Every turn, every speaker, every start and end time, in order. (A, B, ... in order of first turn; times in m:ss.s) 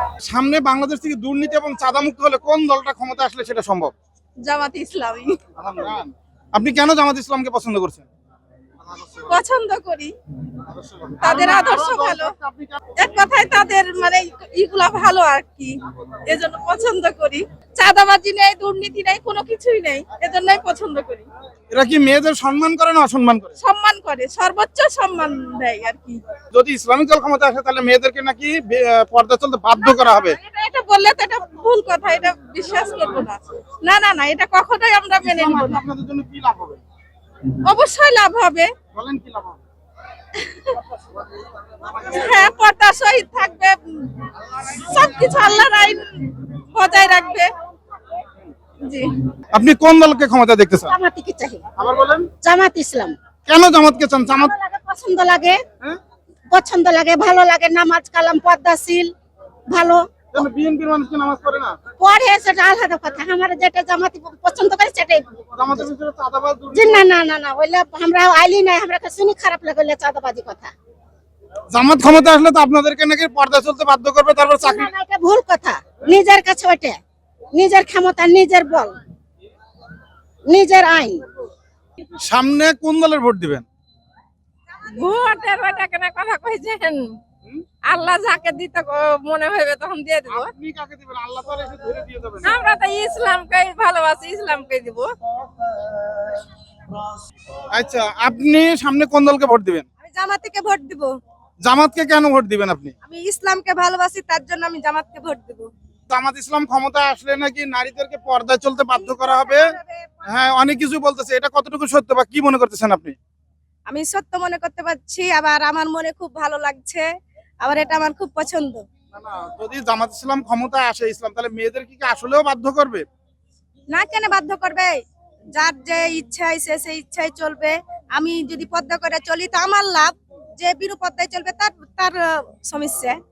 0:00.2-0:03.9 A
0:04.4-0:05.4 B
0:05.6-0:08.0 A
0:08.8-0:09.3 A
0:09.3-0:10.1 B
0:10.7-0:12.8 A
0:11.2-0:12.3 B
0:13.0-0:15.7 B
0:16.3-0:21.2 B
0:21.7-0:23.6 A
0:23.6-0:26.2 B
0:26.5-0:30.3 A
0:29.8-0:35.8 B
0:35.2-0:36.8 A
0:37.7-0:38.7 B
0:38.9-0:39.6 A
0:42.1-0:46.0 B
0:46.7-0:47.5 B
0:49.5-0:50.9 A
0:50.8-0:51.6 C
0:51.8-0:52.3 A
0:52.4-0:53.1 C
0:53.5-0:54.5 A
0:54.4-0:55.6 C
0:56.5-0:59.1 C
0:59.7-1:00.4 C
1:00.3-1:01.8 A
1:02.0-1:05.3 C
1:05.6-1:07.0 A
1:06.7-1:10.7 C
1:11.7-1:14.9 A
1:14.5-1:17.0 C
1:17.5-1:19.0 C
1:20.5-1:21.2 C
1:22.2-1:23.6 A
1:25.0-1:27.0 B
1:27.9-1:30.5 B
1:30.3-1:32.5 A
1:32.4-1:35.1 B
1:37.7-1:39.8 A
1:40.0-1:41.1 B
1:41.6-1:42.9 A
1:43.0-1:45.7 B
1:46.1-1:49.6 A
1:48.9-1:49.6 B
1:50.3-1:53.2 A
1:53.9-1:57.1 B
1:57.6-1:58.8 B
1:59.1-2:03.0 A
2:03.9-2:05.0 B
2:05.6-2:13.2 B